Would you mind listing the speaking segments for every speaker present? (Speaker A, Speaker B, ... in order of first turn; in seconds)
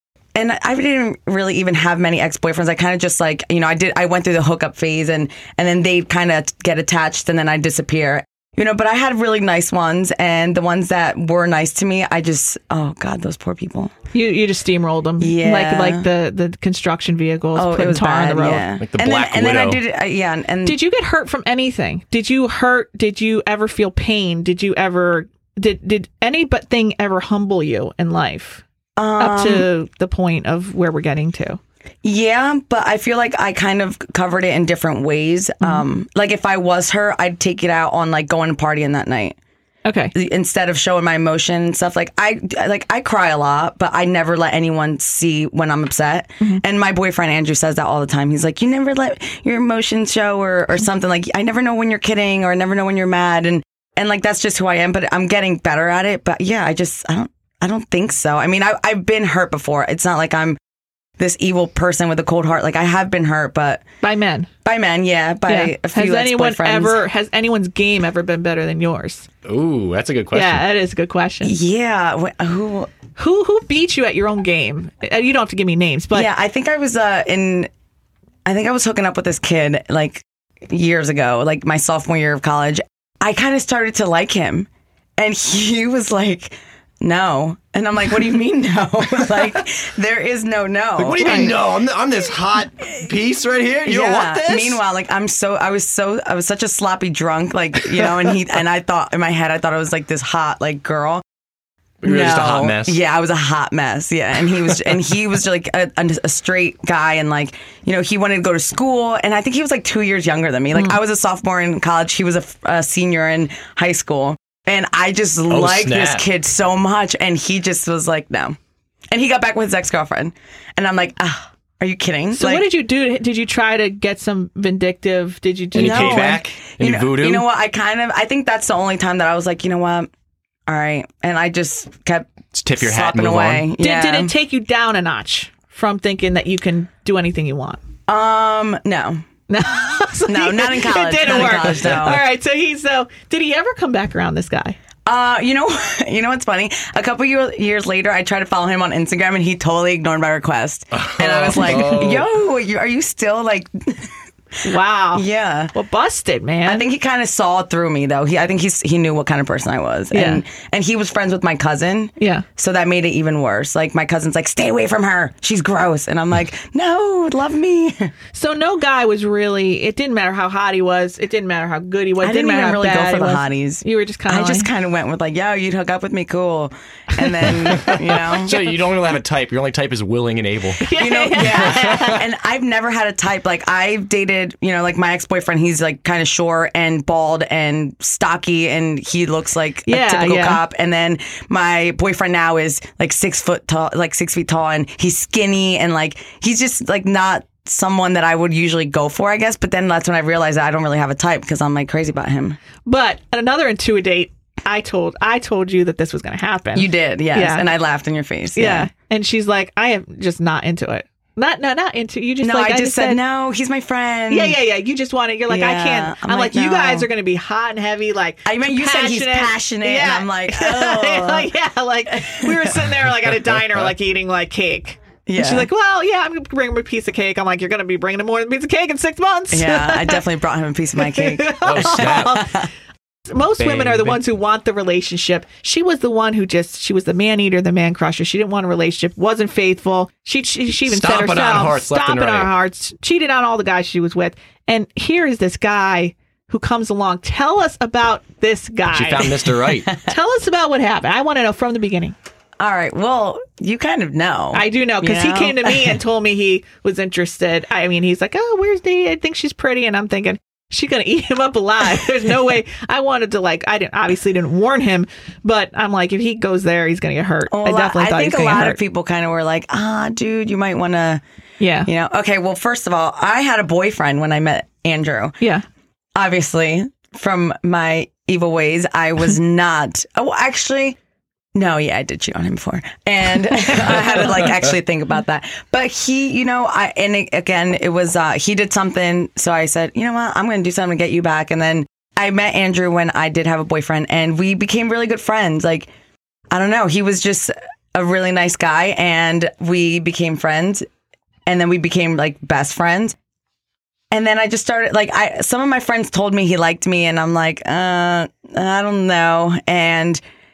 Speaker A: 0.3-13.9, 15.2-16.1, 17.5-20.8, 29.0-29.7, 32.0-39.4, 40.1-60.6, 61.2-63.8, 64.7-67.0, 71.4-72.9, 76.1-77.7, 78.5-91.6, 93.8-101.2, 102.0-118.6, 119.1-122.7, 125.7-130.1, 130.7-134.3, 138.1-139.2, 140.3-142.2, 145.1-154.2, 155.1-155.7, 156.7-168.1, 172.2-178.6, 180.9-202.6, 206.7-208.9, 212.4-214.6, 215.5-217.1, 218.4-221.5, 222.1-222.8, 225.3-225.7, 229.5-232.7, 252.6-256.0, 267.5-271.2, 271.9-275.4, 276.1-281.0, 281.6-295.9, 296.5-300.9, 301.5-303.2, 304.1-310.2
Speaker B: 14.1-18.7, 20.6-28.6, 29.2-31.6, 39.9-40.1, 64.0-64.5, 65.5-69.3, 70.3-71.5, 73.2-76.3, 91.2-91.5, 122.3-126.4, 133.8-137.8, 139.5-144.8, 151.5-152.0, 154.6-156.9, 160.1-160.4, 162.2-162.4, 168.3-174.7, 177.1-178.7, 180.8-182.2, 189.9-190.6, 202.9-207.7, 208.6-213.2, 214.3-230.2, 231.0-232.6, 233.3-249.3, 250.1-252.2, 254.5-268.8, 271.6-271.9
Speaker C: 18.8-19.8, 69.5-70.7, 91.0-94.8, 102.0-103.0, 115.5-116.2, 125.7-127.4, 132.5-133.7, 150.9-152.2, 177.8-182.2, 231.6-232.5, 233.6-234.2, 240.8-242.5, 248.9-249.9